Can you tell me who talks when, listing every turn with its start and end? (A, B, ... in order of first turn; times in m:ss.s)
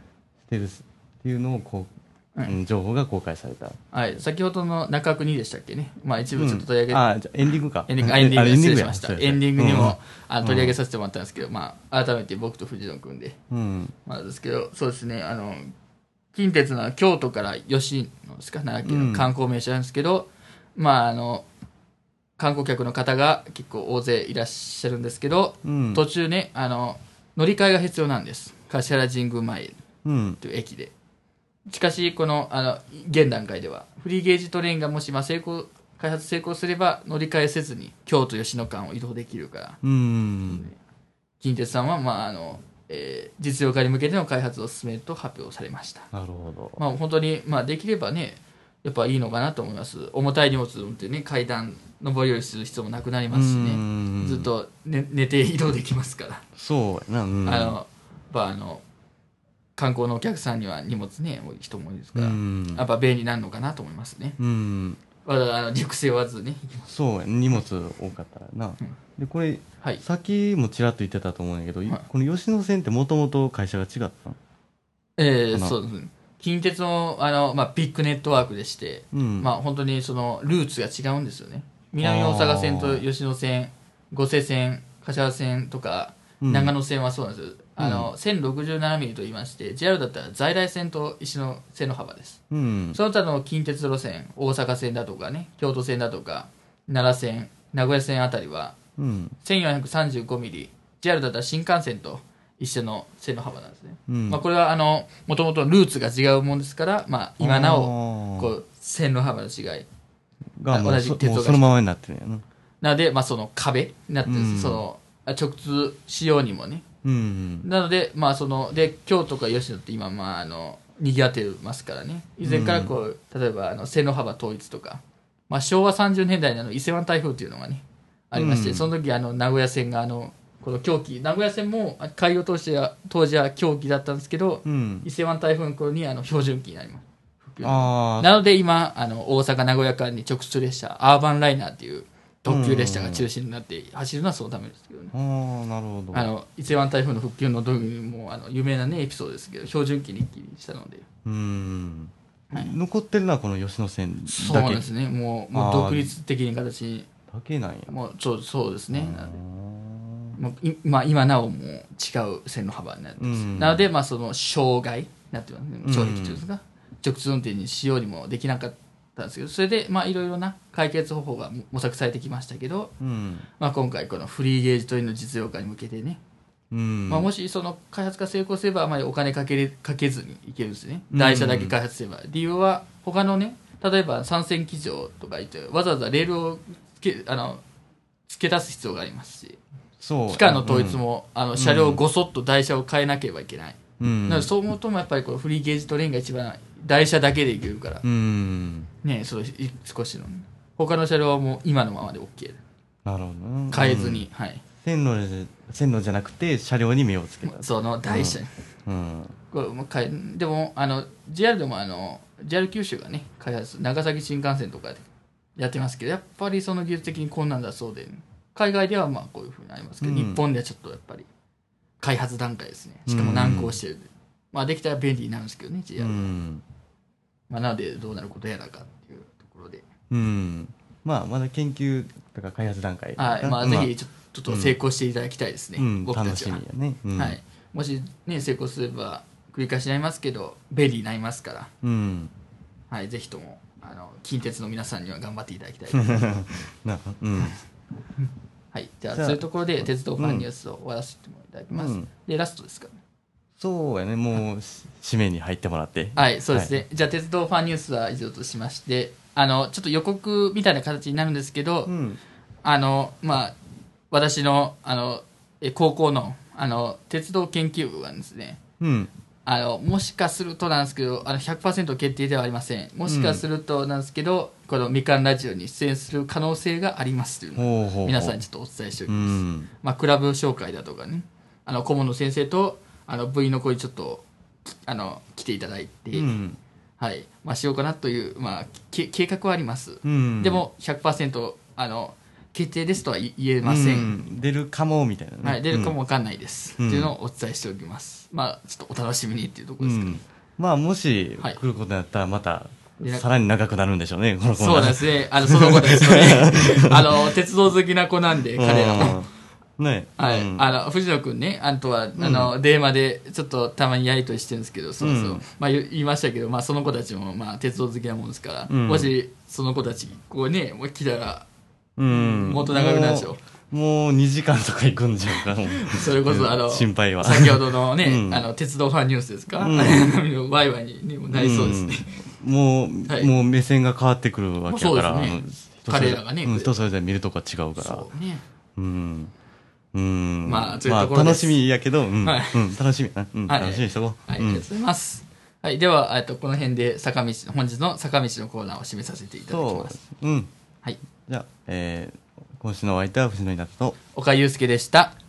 0:00.4-0:01.9 A
0:02.4-0:03.8 A
0:03.9-0:07.0 B
0:06.4-0:10.8 A
0:07.9-0:13.4 B
0:13.5-0:13.9 A
0:14.1-0:15.7 B
0:16.3-0:21.5 B
0:18.8-0:19.3 A
0:22.4-0:29.8 B
0:25.6-0:26.0 A
0:30.0-0:30.4 A
0:30.4-0:30.9 B
0:31.7-0:39.8 B
0:39.8-0:40.7 A
0:40.5-0:40.8 B
0:41.4-0:46.1 B
0:46.1-0:46.8 A
0:46.8-0:56.5 B
0:53.3-0:54.5 A
0:56.6-0:57.8 A
0:57.5-0:58.8 B
0:59.8-1:04.4 B
1:02.2-1:02.8 A
1:04.4-1:05.0 A
1:05.2-1:06.9 B
1:06.9-1:14.4 A
1:15.2-1:32.4 B
1:19.1-1:19.5 A
1:22.0-1:23.0 A
1:26.4-1:26.7 A
1:27.8-1:28.1 A
1:32.5-1:33.0 A
1:32.9-1:38.8 B
1:39.0-1:39.4 A
1:39.4-1:49.9 B
1:44.1-1:44.4 A
1:47.4-1:48.5 A
1:50.6-1:52.4 A
1:50.7-1:51.8 B
1:52.8-1:56.9 B
1:54.3-1:54.8 A
1:57.0-1:57.7 A
1:57.6-2:25.1 B
2:02.4-2:02.9 A
2:08.3-2:08.9 A
2:14.6-2:15.1 A
2:17.6-2:18.4 A
2:22.5-2:23.3 A
2:25.1-2:26.3 A
2:26.1-2:31.0 B
2:31.2-2:34.9 A
2:34.3-2:37.1 B
2:35.5-2:36.2 A
2:37.3-2:38.0 A
2:37.9-2:39.4 B
2:38.9-2:40.4 A
2:40.4-2:52.9 B
2:43.2-2:43.8 A
2:45.8-2:46.4 A
2:53.0-2:53.5 A
2:53.6-2:56.2 B
2:56.7-2:57.3 A
2:57.1-3:07.6 B
3:01.1-3:01.8 A
3:08.3-3:09.6 B
3:10.0-3:11.0 A
3:10.3-3:18.0 B
3:11.6-3:12.0 A
3:14.0-3:14.5 A
3:18.0-3:18.9 A
3:19.0-3:22.6 B
3:23.0-3:29.4 A
3:23.7-3:24.6 B
3:27.5-3:28.5 B
3:29.5-3:35.0 B
3:35.6-3:41.3 B
3:40.0-3:40.4 A
3:42.0-3:46.3 B
3:43.1-3:43.8 A
3:46.0-3:46.6 A
3:47.5-3:49.8 B
3:50.1-3:53.9 A
3:53.2-3:56.6 B
3:54.5-3:54.8 A
3:55.8-3:57.4 A
3:57.2-4:01.7 B
4:01.8-4:02.3 A
4:02.9-4:06.4 B
4:05.9-4:07.6 A
4:08.7-4:12.9 B
4:09.1-4:10.5 A
4:11.7-4:12.1 A
4:13.6-4:16.7 A
4:16.2-4:21.9 B
4:21.9-4:22.2 A
4:22.6-4:23.6 B
4:24.1-4:28.6 B
4:28.8-4:29.1 A
4:29.5-4:46.3 B
4:33.1-4:33.4 A
4:37.6-4:38.4 A
4:39.1-4:39.7 A
4:46.1-4:46.6 A
4:47.0-4:54.1 B
4:50.0-4:50.7 A
4:53.6-4:56.0 A
4:55.4-5:00.2 B
4:56.8-4:57.1 A
4:59.8-5:07.4 A
5:03.0-5:03.2 B
5:04.6-5:09.2 B
5:08.6-5:10.7 A
5:10.2-5:21.5 B
5:12.2-5:12.5 A
5:15.0-5:15.4 A
5:18.7-5:19.1 A
5:22.0-5:28.5 A
5:22.1-5:23.4 B
5:25.7-5:32.2 B
5:29.5-5:30.1 A
5:31.3-5:38.1 A
5:34.7-5:36.7 B
5:37.8-5:38.4 B
5:38.8-5:39.3 A
5:39.9-5:44.7 A
5:40.4-5:41.6 B
5:42.2-5:42.7 B
5:43.5-5:50.0 B
5:49.5-5:50.5 A
5:51.3-5:54.0 A
5:54.1-5:55.1 B